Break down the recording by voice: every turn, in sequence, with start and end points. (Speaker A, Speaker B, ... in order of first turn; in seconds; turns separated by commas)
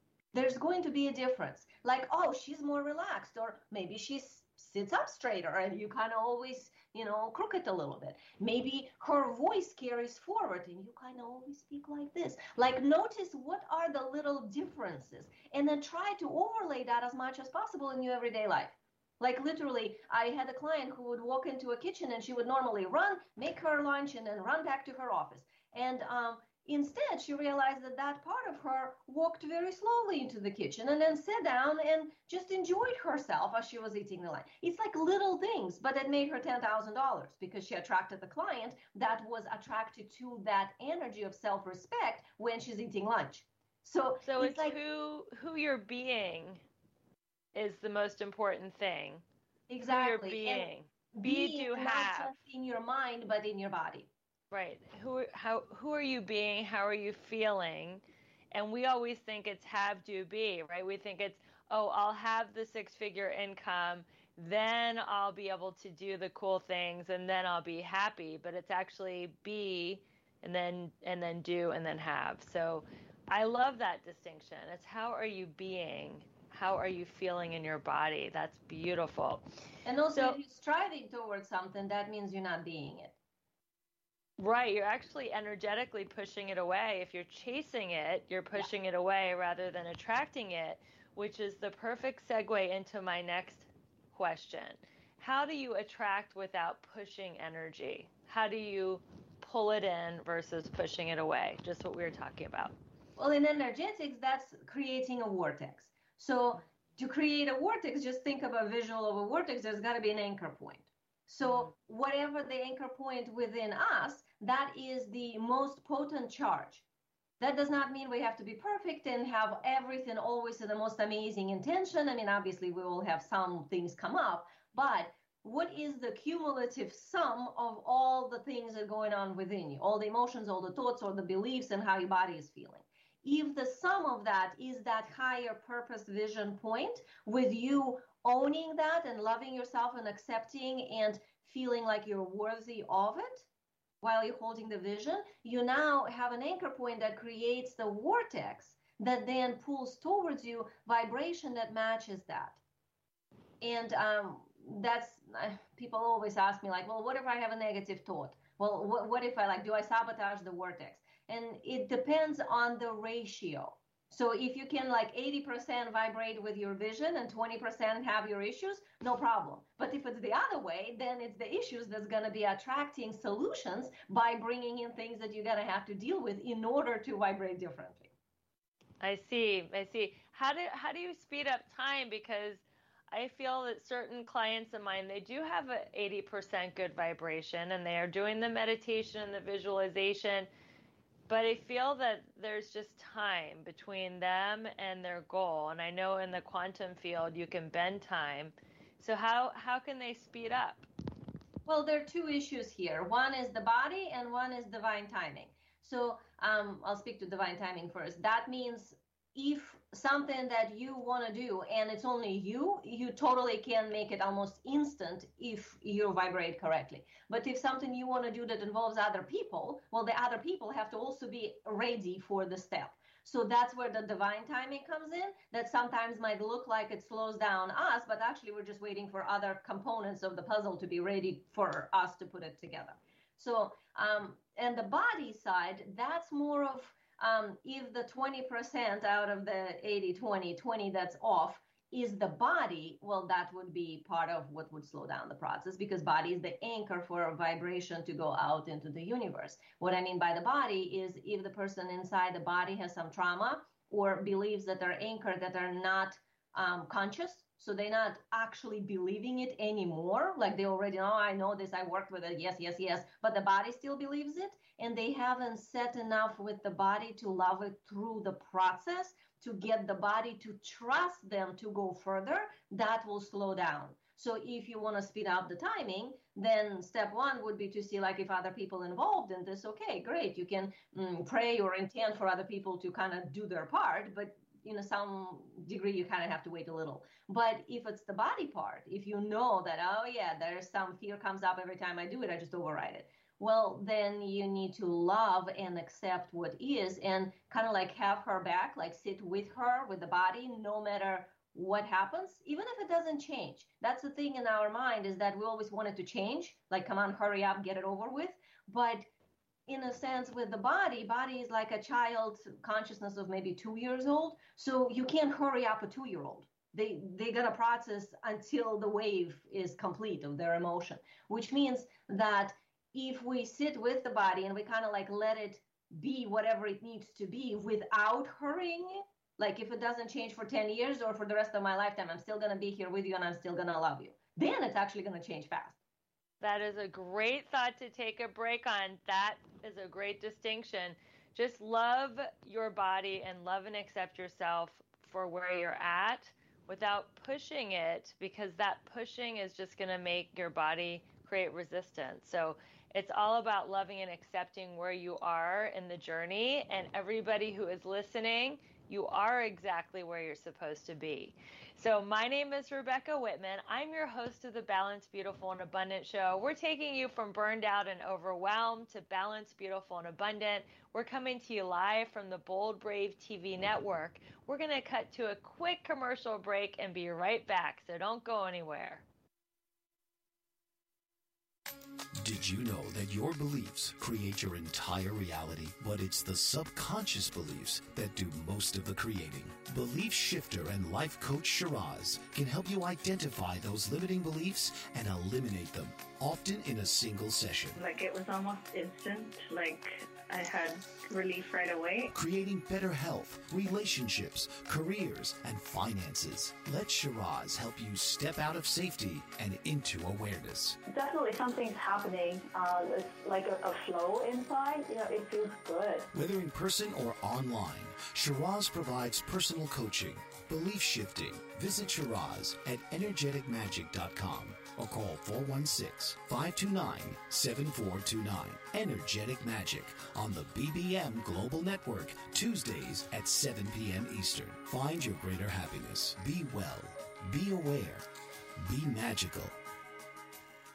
Speaker A: 0.3-44.8, Speaker B: 44.2-46.6, Speaker B: 47.5-49.2, Speaker A: 49.7-54.1, Speaker B: 49.8-52.4, Speaker B: 54.5-79.4, Speaker A: 79.8-83.2, Speaker B: 84.4-102.7, Speaker A: 103.2-116.8, Speaker B: 111.4-111.7, Speaker A: 117.4-143.5, Speaker A: 144.0-152.6, Speaker A: 153.6-178.1, Speaker B: 179.0-190.5, Speaker B: 191.3-200.9, Speaker A: 201.7-309.1, Speaker A: 309.7-335.8, Speaker B: 336.4-379.0, Speaker C: 382.2-397.8, Speaker D: 397.8-402.1, Speaker C: 402.1-410.8, Speaker D: 410.9-416.1, Speaker C: 416.1-438.1, Speaker C: 438.6-439.6